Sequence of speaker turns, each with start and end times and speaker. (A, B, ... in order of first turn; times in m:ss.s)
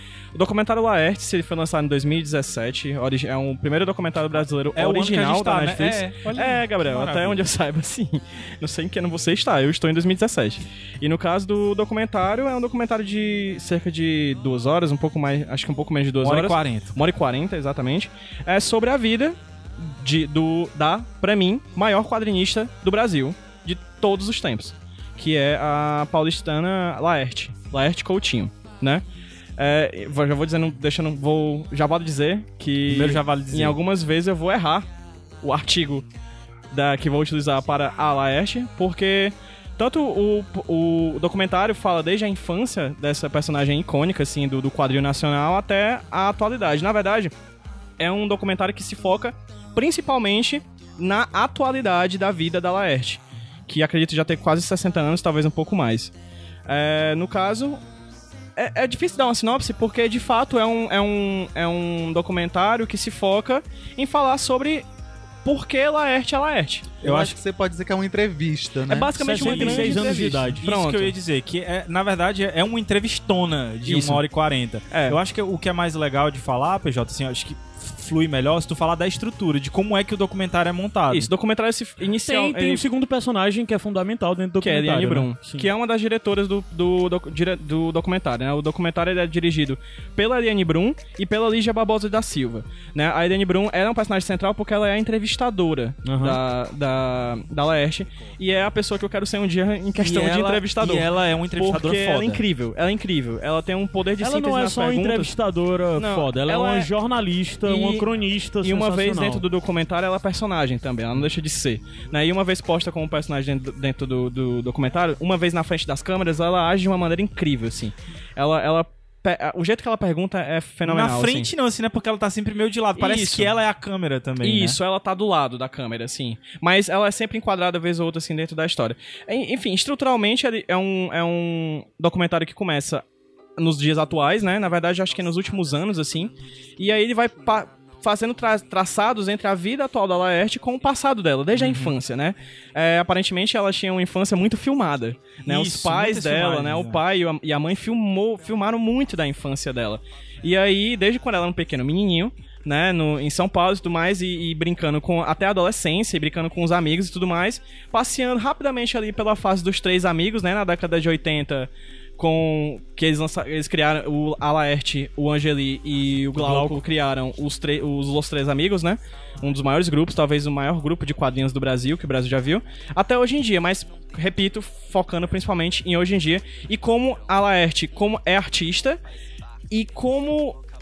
0:00.4-0:29.0 A
0:04.8-0:07.4 B
0:16.2-0:16.9 B
0:29.6-0:34.9 A
0:32.9-0:33.8 B
0:35.4-0:36.1 A
0:36.7-0:47.3 A
0:48.0-0:56.1 A
0:56.7-0:57.8 A
0:58.6-1:04.9 A
1:05.4-1:07.0 A
1:07.0-1:10.0 C
1:07.0-1:07.4 B
1:08.9-1:11.2 A
1:09.2-1:10.6 D
1:10.3-1:21.3 B
1:13.9-1:14.2 A
1:14.9-1:15.2 A
1:21.1-1:22.8 A
1:22.2-1:25.7 D
1:24.6-1:45.3 A
1:36.0-1:36.4 D
1:40.0-1:42.4 B
1:44.2-1:49.5 D
1:46.0-1:46.9 A
1:47.7-1:48.1 A
1:48.6-2:01.5 A
2:00.9-2:04.8 B
2:03.0-2:03.5 A
2:04.4-2:13.0 A
2:13.6-2:59.0 A
2:21.6-2:21.9 B
2:25.4-2:27.0 B
2:46.4-2:46.8 D
2:59.7-3:00.6 A